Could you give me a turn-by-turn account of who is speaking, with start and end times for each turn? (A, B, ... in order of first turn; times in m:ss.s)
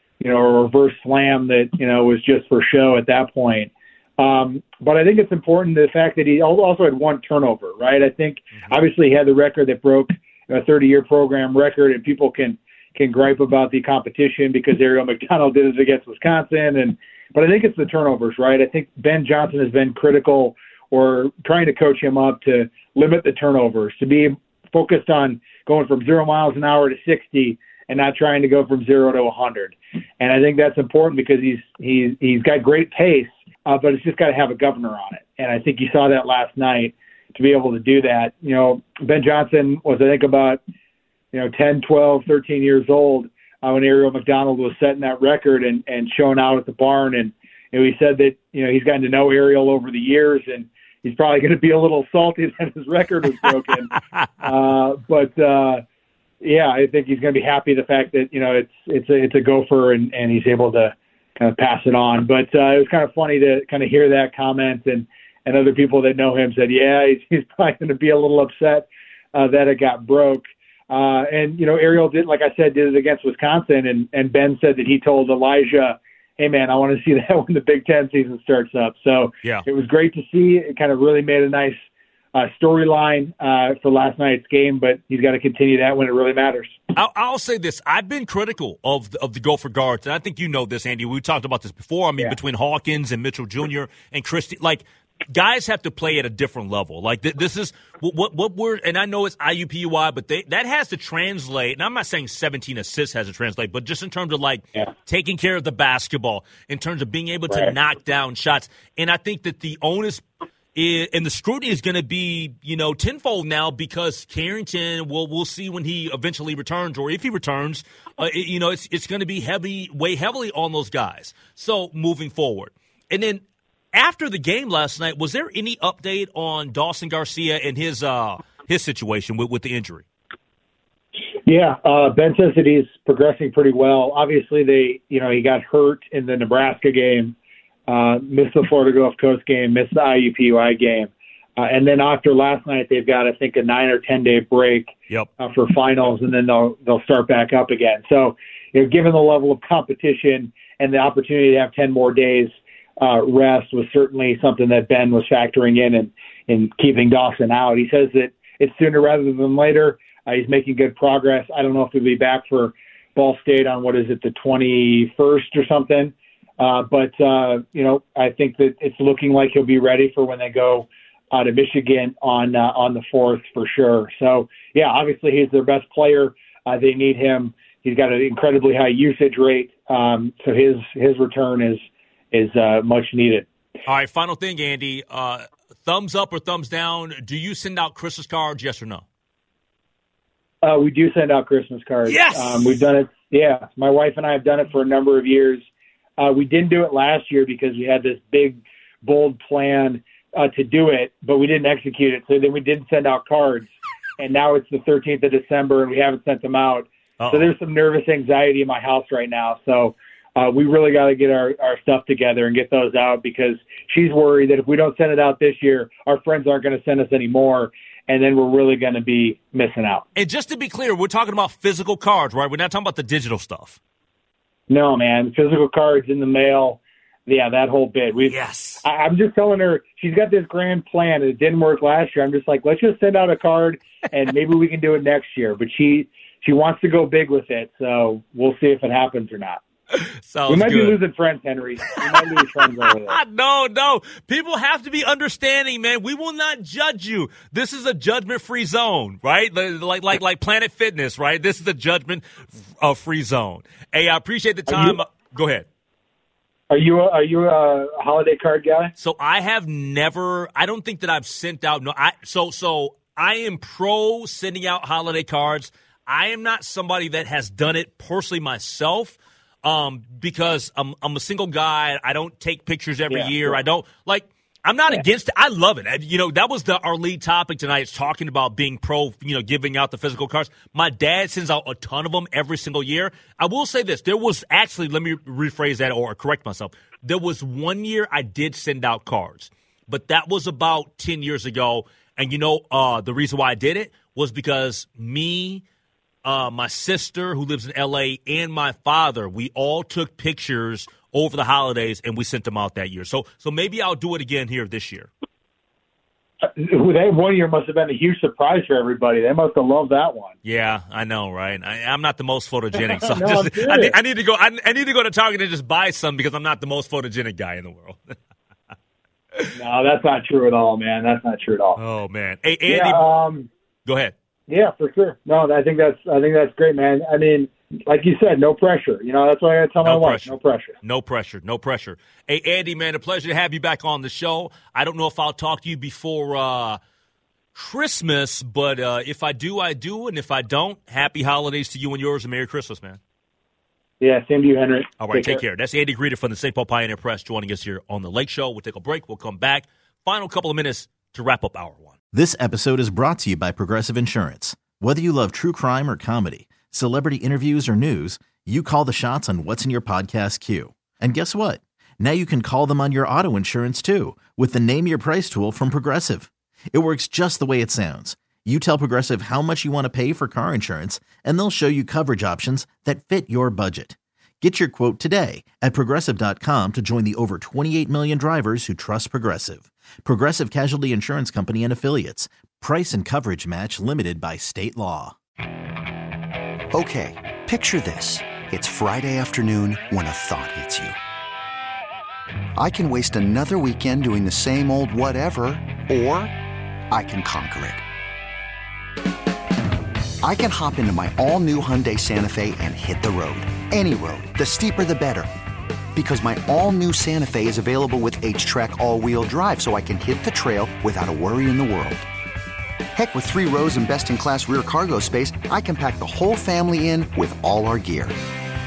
0:00.2-0:40.6 A
0:41.3-0:55.8 A
0:56.4-1:21.8 A
1:22.3-1:26.8 A
1:26.9-2:03.4 B
2:03.9-2:10.0 B
2:11.5-2:17.4 A
2:17.9-3:03.5 A
3:03.8-3:09.0 B
3:10.6-3:15.6 A
3:12.0-3:12.8 B
3:16.2-3:40.0 A
3:27.2-3:27.5 B
3:40.2-3:43.8 B
3:44.7-3:59.6 A
3:48.3-3:48.8 B
3:59.9-4:01.0 B
4:00.5-4:03.2 A
4:01.9-4:15.6 B
4:14.7-4:15.0 A
4:16.7-4:18.9 A
4:19.0-4:55.6 B
4:33.1-4:33.6 A
4:56.2-5:05.1 B
5:06.4-5:10.3 A
5:10.4-5:18.2 B
5:12.8-5:14.0 A
5:19.6-5:21.8 A
5:21.8-5:23.1 B
5:22.7-5:23.5 A
5:23.9-5:24.1 B
5:24.5-5:30.7 A
5:29.8-5:36.8 B
5:37.5-5:43.0 B
5:44.0-5:45.4 A
5:45.0-5:52.0 B
5:52.1-6:25.2 C
6:26.7-6:31.0 D
6:32.6-6:36.3 D
6:36.9-6:37.8 D
6:40.2-6:45.3 D
6:45.9-6:52.0 D
6:52.9-6:58.2 D